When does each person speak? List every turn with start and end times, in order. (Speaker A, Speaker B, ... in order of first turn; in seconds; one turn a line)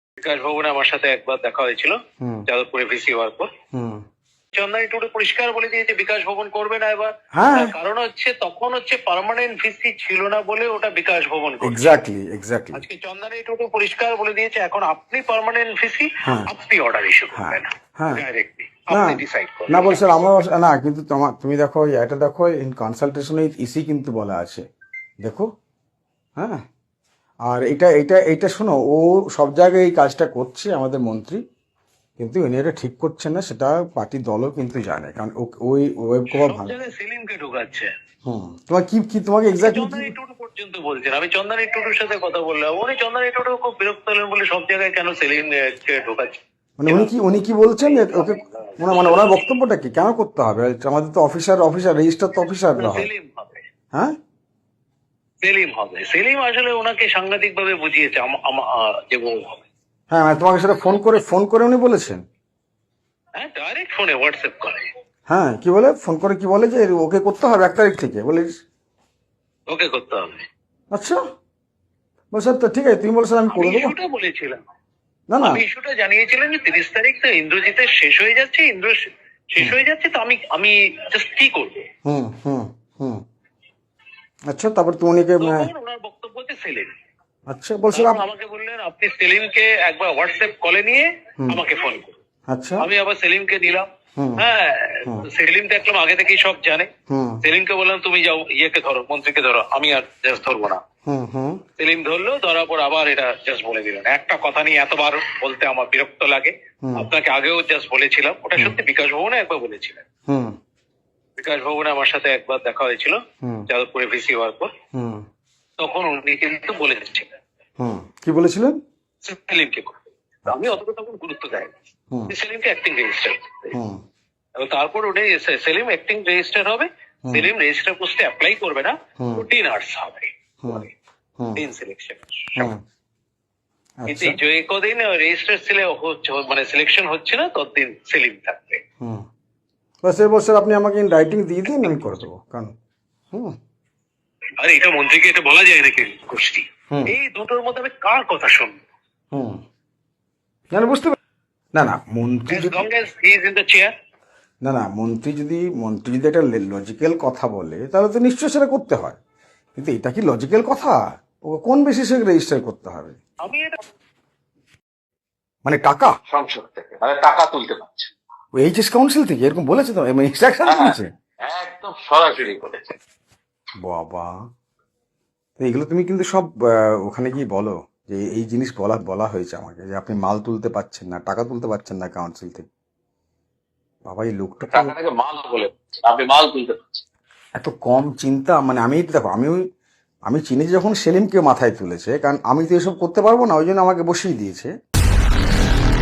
Speaker A: 0.2-3.5
Speaker B: 3.7-4.0
Speaker A: 4.5-11.8
Speaker B: 7.3-7.7
Speaker B: 11.6-12.8
Speaker A: 12.7-20.3
Speaker B: 16.2-16.5
Speaker B: 17.3-18.2
Speaker B: 18.9-24.7
Speaker B: 25.2-25.5
Speaker B: 27.4-31.4
Speaker B: 32.2-36.8
Speaker A: 36.3-37.9
Speaker B: 38.2-40.1
Speaker A: 39.6-49.3
Speaker B: 46.8-53.1
Speaker A: 52.8-53.6
Speaker A: 55.4-59.6
Speaker B: 60.1-62.2
Speaker A: 63.4-64.9
Speaker B: 65.3-68.6
Speaker A: 69.7-70.5
Speaker B: 70.9-71.2
Speaker B: 72.3-73.9
Speaker A: 73.5-74.6
Speaker B: 75.3-75.6
Speaker A: 75.4-81.9
Speaker B: 82.0-83.2
Speaker B: 84.5-85.7
Speaker A: 85.4-86.9
Speaker B: 87.5-88.2
Speaker A: 87.9-92.2
Speaker B: 92.5-92.9
Speaker A: 92.8-93.9
Speaker B: 94.2-94.5
Speaker A: 94.4-96.9
Speaker B: 97.1-97.4
Speaker A: 97.4-100.8
Speaker B: 101.1-101.6
Speaker A: 101.8-110.0
Speaker B: 106.8-107.1
Speaker B: 110.3-110.5
Speaker A: 111.4-114.7
Speaker B: 114.9-115.2
Speaker A: 115.8-117.3
Speaker B: 117.8-118.8
Speaker A: 119.2-121.7
Speaker A: 122.3-123.8
Speaker B: 123.7-124.0
Speaker A: 124.6-130.9
Speaker B: 127.2-127.5
Speaker B: 129.2-129.4
Speaker A: 131.6-132.7
Speaker B: 134.0-134.4
Speaker A: 134.1-138.8
Speaker B: 140.0-142.7
Speaker A: 144.6-148.8
Speaker B: 149.3-149.6
Speaker B: 150.7-151.2
Speaker B: 151.8-152.8
Speaker A: 152.5-153.9
Speaker B: 154.6-159.2
Speaker B: 159.8-163.2
Speaker A: 163.4-163.8
Speaker B: 165.7-166.1
Speaker C: 166.3-168.1
Speaker B: 168.6-171.1
Speaker C: 170.7-172.9
Speaker B: 173.8-174.3
Speaker B: 175.6-182.7
Speaker B: 184.1-184.9
Speaker C: 184.7-186.8
Speaker B: 187.6-189.6
Speaker B: 190.3-194.7